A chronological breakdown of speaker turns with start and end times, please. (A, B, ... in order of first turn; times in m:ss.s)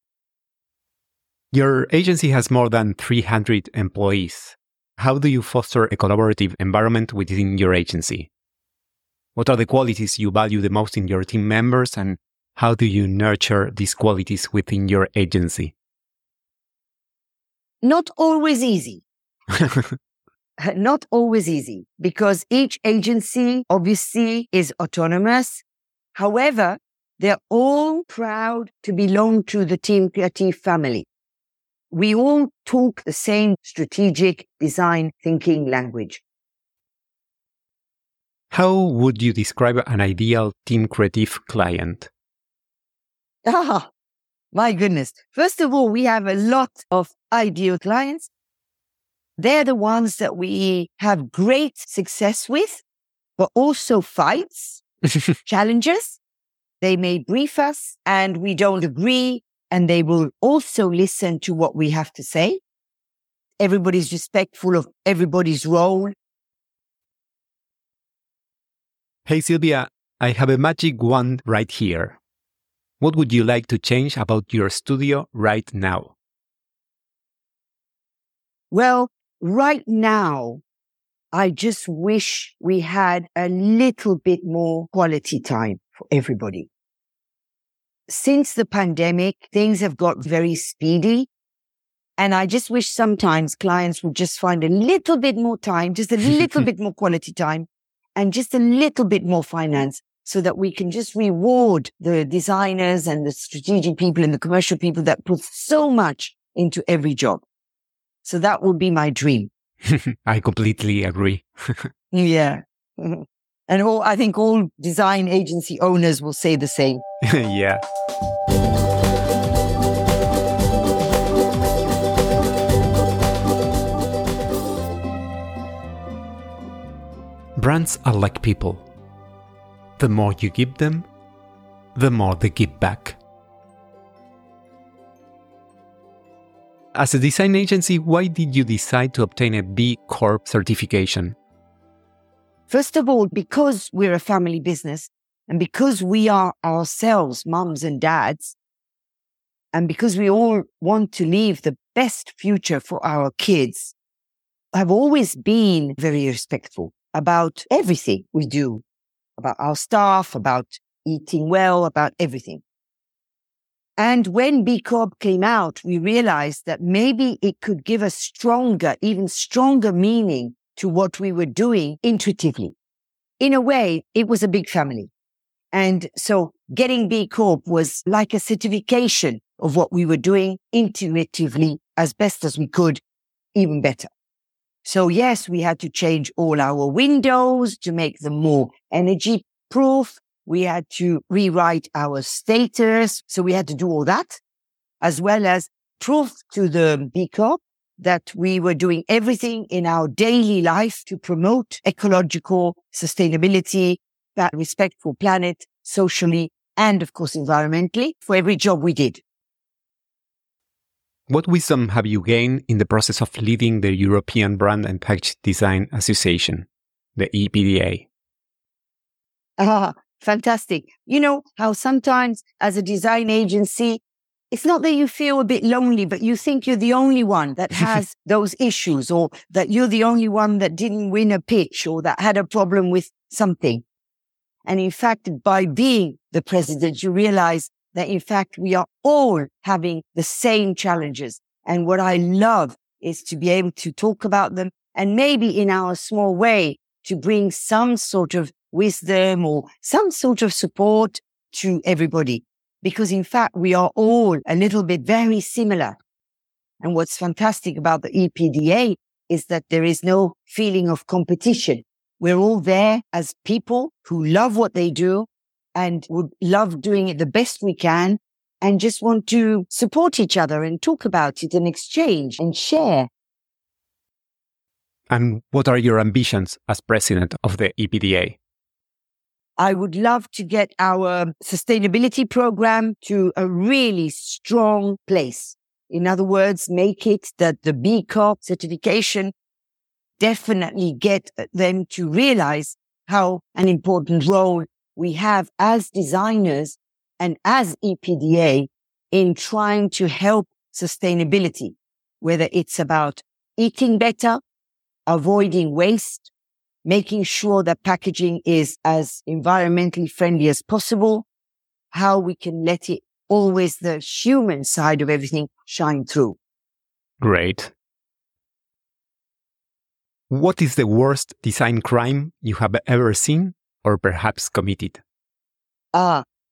0:01.5-0:08.3 A
0:09.4-0:15.7 A
0:17.8-0:19.0 B
0:19.6-0:19.9 A
0:20.6-0:25.6 B
0:26.1-0:31.1 B
0:31.9-0:36.2 B
0:38.5-0:42.1 A
0:43.4-0:43.9 B
0:44.5-0:48.3 B
0:49.4-0:52.8 B
0:53.4-0:54.8 B
0:55.4-0:56.2 B
0:56.8-1:02.6 B
1:03.6-1:06.1 B
1:09.3-1:12.2 A
1:13.0-1:16.1 A
1:18.7-1:20.6 B
1:21.3-1:26.7 B
1:28.1-1:31.3 B
1:32.2-1:47.4 B
1:48.2-1:49.5 B
1:49.9-1:51.9 A
1:52.1-1:57.0 B
1:57.2-1:57.8 A
2:07.6-2:08.9 A
2:10.0-2:11.1 A
2:11.9-2:13.2 A
2:16.9-2:21.4 A
2:22.7-2:28.6 B
2:29.7-2:33.9 B
2:34.7-2:38.8 B
2:39.4-2:42.6 B
2:44.0-2:52.7 B
2:53.4-2:55.1 B
2:55.7-3:03.0 B
3:03.6-3:04.1 B
3:04.8-3:14.4 B
3:15.0-3:29.2 B
3:31.3-3:38.1 A
3:39.6-3:53.8 B
3:54.6-4:16.0 B
4:16.8-4:33.1 B
4:35.1-4:38.4 A
4:39.6-4:49.3 B
4:50.2-5:04.4 B
5:05.1-5:06.3 B
5:06.8-5:11.2 B
5:11.9-5:16.4 B
5:17.2-5:17.7 A
5:20.3-5:25.0 A
5:25.9-5:26.2 B